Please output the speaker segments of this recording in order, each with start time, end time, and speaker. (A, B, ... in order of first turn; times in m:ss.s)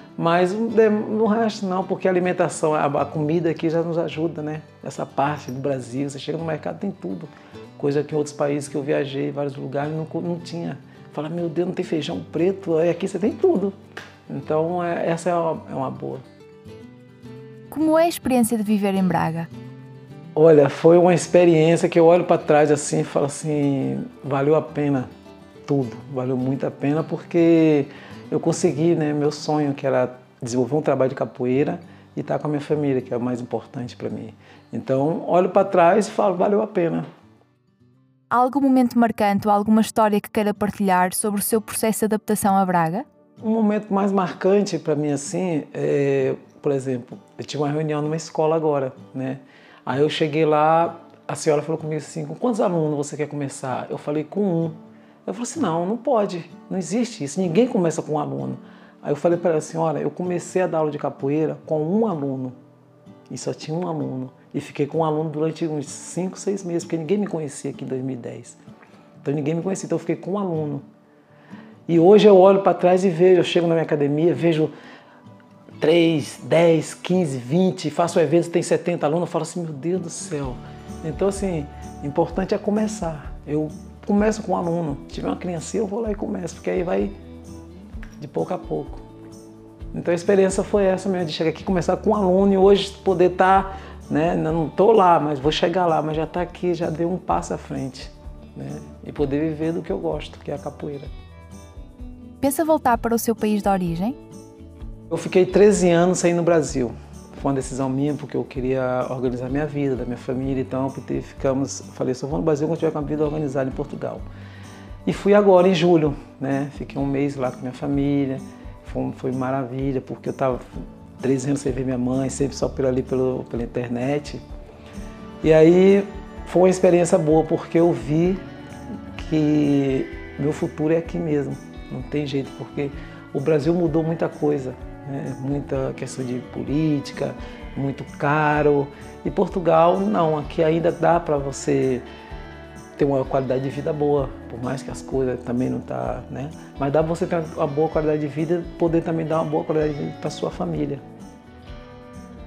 0:00.2-0:13.7 A
0:14.3-0:16.2 A
0:17.7-0:19.5 B
0:20.3-0:25.1 A
0:25.6-0:37.1 A
0:38.3-0:43.0 B
0:43.4-1:02.5 A
1:03.3-1:08.6 A
1:09.2-1:10.8 A
1:11.9-1:14.7 A
1:15.8-1:27.1 A
1:28.2-1:29.0 A
1:29.9-1:41.1 A
1:42.4-1:44.2 B
1:45.1-1:54.2 A
1:55.0-2:00.6 A
2:01.2-2:04.4 A
2:05.4-2:08.4 A
2:09.1-2:22.0 A
2:23.0-2:31.0 A